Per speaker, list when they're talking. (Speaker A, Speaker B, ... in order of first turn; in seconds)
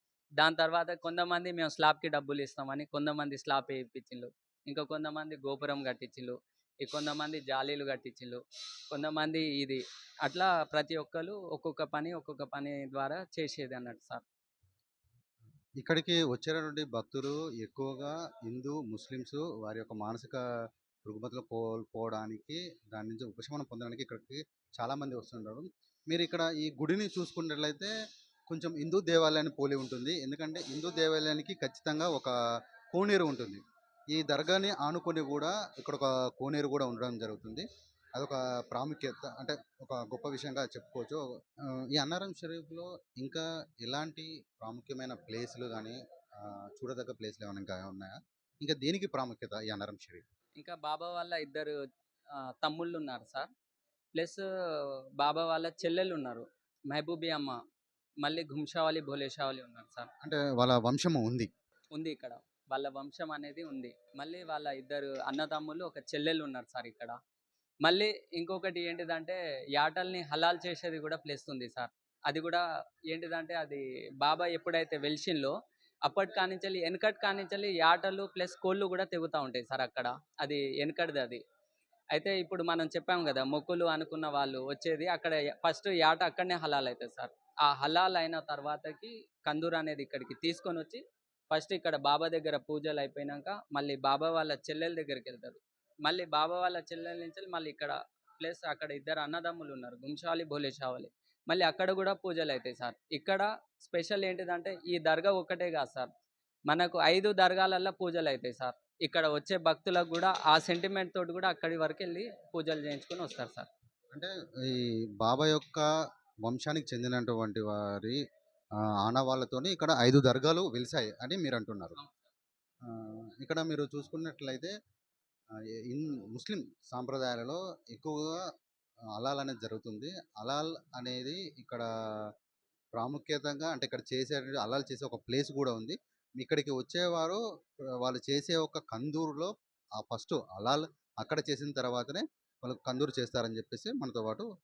Speaker A: 0.4-14.2, 50.6-51.8, 52.4-53.5, 54.1-57.6, 58.2-60.1, 61.9-67.2, 67.8-75.5, 76.0-81.4, 82.1-106.1, 106.7-113.7
Speaker B: 15.8-20.4, 21.1-27.9, 28.5-32.3, 32.9-50.2, 60.2-61.5, 114.1-115.8, 116.4-118.2, 119.0-122.0, 122.8-124.7, 125.9-128.4, 129.2-131.8, 132.9-137.4, 138.0-144.5